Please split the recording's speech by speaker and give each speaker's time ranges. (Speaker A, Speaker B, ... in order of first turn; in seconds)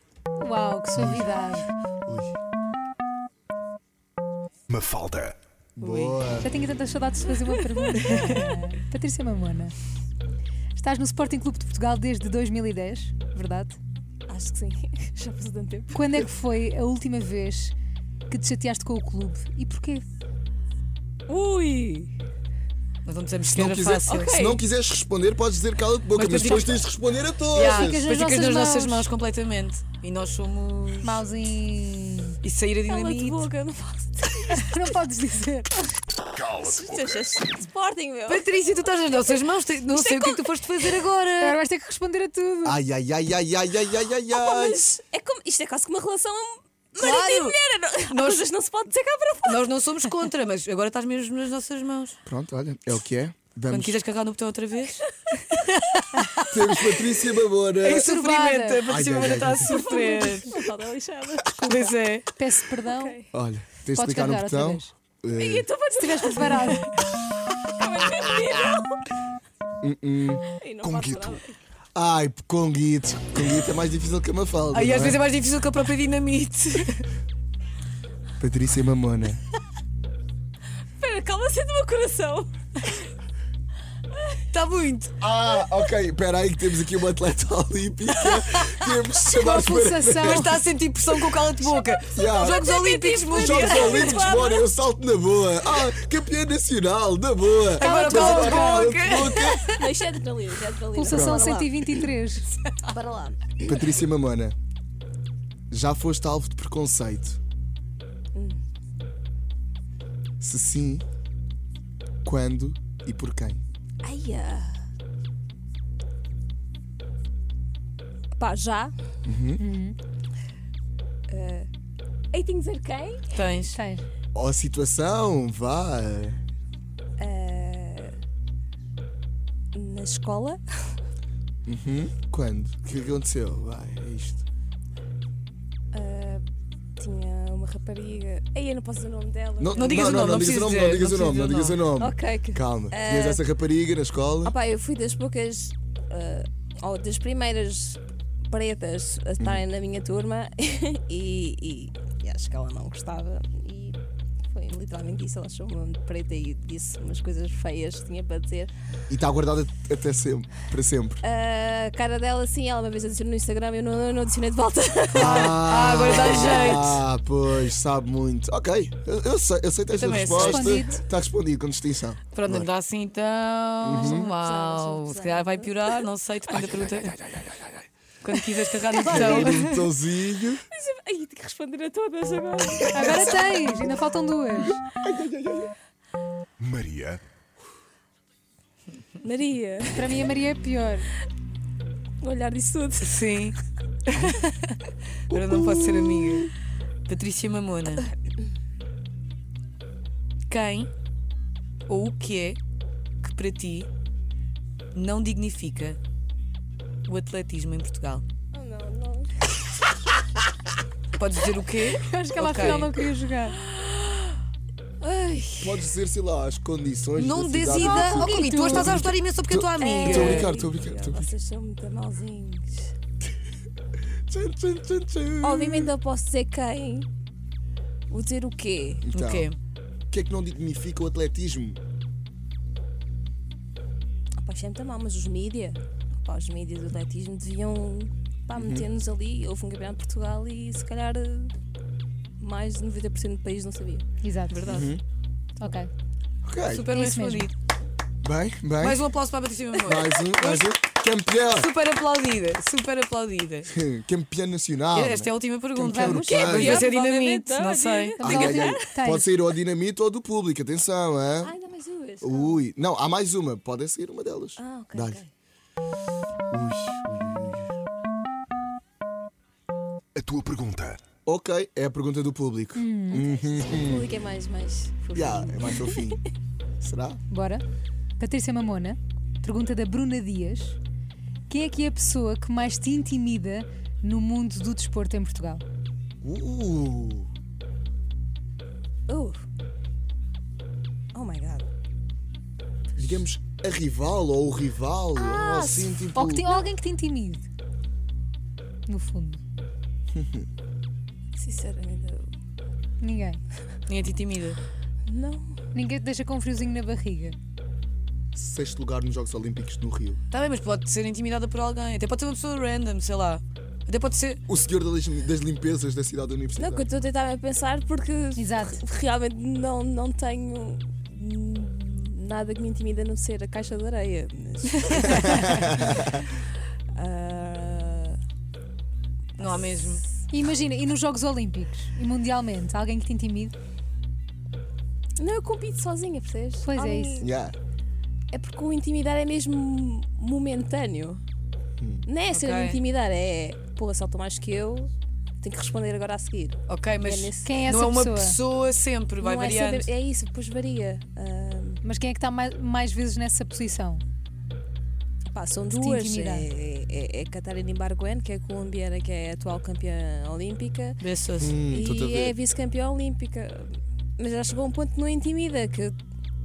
Speaker A: 0.4-1.7, 6.4-9.8, 10.8-13.8, 15.9-17.8, 18.3-20.1, 27.6-29.1, 31.0-32.4, 34.5-35.8, 41.4-42.8, 57.9-58.9, 61.5-63.2, 63.9-64.9, 66.0-66.9, 89.4-90.6, 97.8-99.0, 100.9-102.5, 119.6-120.0, 123.7-124.0, 170.4-171.0, 179.0-179.6, 182.9-184.8, 189.9-191.1, 212.0-213.6, 217.7-219.1, 244.2-244.7, 245.6-245.9, 246.9-247.5, 255.8-256.8, 258.2-259.3, 272.8-273.3, 277.3-277.6, 278.2-280.8, 281.5-285.6, 296.1-297.5, 298.9-299.4, 303.0-303.4, 305.7-307.4, 318.4-318.8, 330.3-333.5, 336.6-337.3, 347.4-348.4, 351.8-354.0, 355.7-356.5
Speaker B: 1.0-1.5, 2.1-2.4, 5.8-6.5, 23.5-28.0, 42.6-44.8, 52.3-54.0, 56.5-58.1, 58.9-59.8, 63.3-65.7, 69.8-70.5, 72.0-75.2, 78.4-79.4, 85.2-90.6, 92.1-92.6, 93.3-99.7, 101.1-101.5, 103.7-104.6, 105.7-107.4, 110.4-111.0, 112.2-113.6, 119.2-119.6, 124.3-126.4, 131.7-134.4, 139.6-144.5, 159.1-161.2, 165.1-172.7, 173.8-174.3, 179.1-180.6, 184.9-185.7, 195.3-196.5, 215.6-221.3, 224.3-225.9, 229.0-229.5, 230.1-231.8, 238.6-238.9, 244.7-245.0, 246.4-246.9, 248.2-249.1, 249.8-251.7, 253.7-256.9, 258.2-261.5, 262.2-265.2, 266.5-267.8, 271.2-274.1, 275.1-276.2, 276.8-277.2, 286.2-287.3, 293.0-296.5, 300.1-300.5, 308.3-310.2, 314.5-316.9, 325.4-326.1, 337.2-337.6, 361.4-362.3
Speaker C: 4.7-5.4, 70.8-71.4, 186.6-187.2, 270.1-271.0
Speaker D: 5.8-6.2, 8.0-8.4, 23.1-24.4, 26.1-26.9, 27.5-31.2, 32.4-33.4, 38.3-41.6, 47.0-48.5, 49.5-52.2, 53.7-57.1, 57.8-60.5, 61.7-62.3, 74.7-77.1, 84.5-85.1, 88.3-88.9, 90.2-94.4, 97.8-99.9, 123.3-123.8, 139.7-141.8, 165.2-167.0, 169.9-170.8, 172.3-177.2, 178.2-179.8, 193.0-193.6, 194.1-194.7, 195.3-196.5, 197.1-198.1, 200.5-200.9, 201.9-202.6, 203.2-203.9, 204.9-206.0, 207.1-208.2, 211.1-212.9, 217.2-220.5, 229.1-229.6, 244.5-244.9, 246.7-247.5, 248.8-250.7, 251.5-253.7, 254.9-258.2, 303.9-304.6, 310.3-314.4, 329.4-330.0, 342.3-342.8, 346.7-349.9, 361.0-361.6
Speaker E: 14.3-16.3, 21.3-22.1, 24.1-24.6, 32.9-34.8, 36.5-38.5, 39.9-41.0, 44.3-49.6, 55.3-55.6, 59.6-61.6, 62.8-63.3, 65.4-66.8, 67.7-69.0, 70.5-71.6, 81.0-82.5, 92.4-94.7, 98.5-102.1, 102.8-103.9, 108.3-108.6, 114.0-114.8, 118.4-118.9, 121.3-121.7, 122.3-123.7, 127.2-128.2, 129.7-130.6, 135.9-136.4, 137.0-140.3, 142.0-143.4, 144.4-154.0, 154.5-158.7, 161.2-166.9, 174.0-176.0, 180.7-183.6, 189.2-190.3, 192.2-193.3, 208.5-209.4, 213.7-214.2, 215.0-215.8, 219.8-222.9, 225.4-227.1, 228.1-229.1, 234.4-241.5, 242.4-244.1, 256.1-258.9, 261.4-262.6, 264.6-265.3, 273.6-276.2, 289.1-289.4, 291.1-291.7, 295.2-295.9, 301.4-302.3, 305.1-305.6, 316.6-328.2, 329.4-330.0, 335.2-337.3, 338.3-341.2, 342.1-347.6, 349.2-351.8, 355.3-361.0, 361.6-366.0